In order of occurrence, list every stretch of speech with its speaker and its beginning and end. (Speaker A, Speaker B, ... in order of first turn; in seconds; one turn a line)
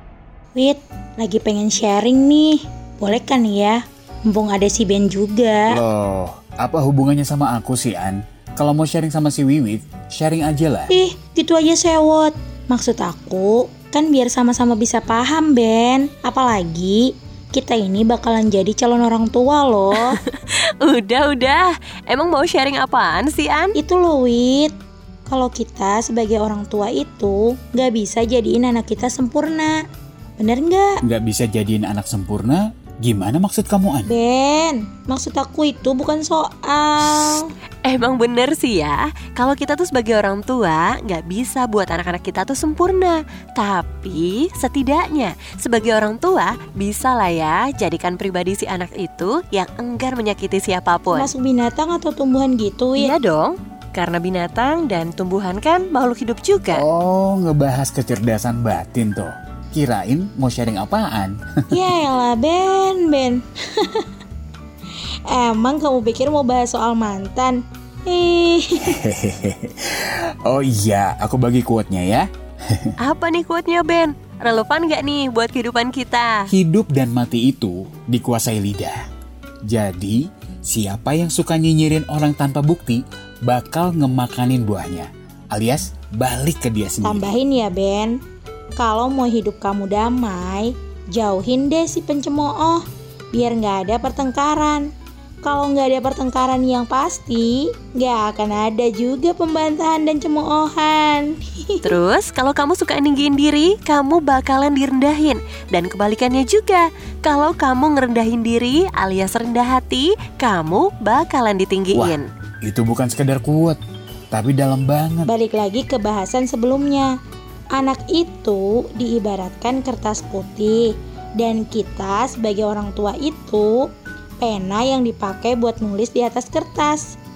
Speaker A: 0.6-5.8
Speaker B: 5.7-10.9
Speaker A: 10.9-20.2
Speaker C: 20.0-23.8
Speaker A: 23.8-24.7
Speaker A: 25.3-29.8
Speaker A: 30.4-30.9
Speaker B: 31.0-34.1
Speaker A: 34.1-37.5
Speaker C: 37.9-51.3
Speaker A: 51.1-53.1
Speaker C: 53.0-56.8
Speaker B: 56.7-61.4
Speaker A: 61.7-64.1
Speaker A: 65.3-69.0
Speaker B: 68.8-73.0
Speaker C: 73.0-76.5
Speaker B: 76.5-79.0
Speaker B: 79.7-87.4
Speaker A: 87.0-88.2
Speaker A: 88.8-94.9
Speaker A: 95.4-102.0
Speaker C: 101.8-112.3
Speaker B: 111.9-113.8
Speaker B: 114.3-115.3
Speaker A: 115.3-117.1
Speaker A: 117.8-123.9
Speaker A: 124.4-127.2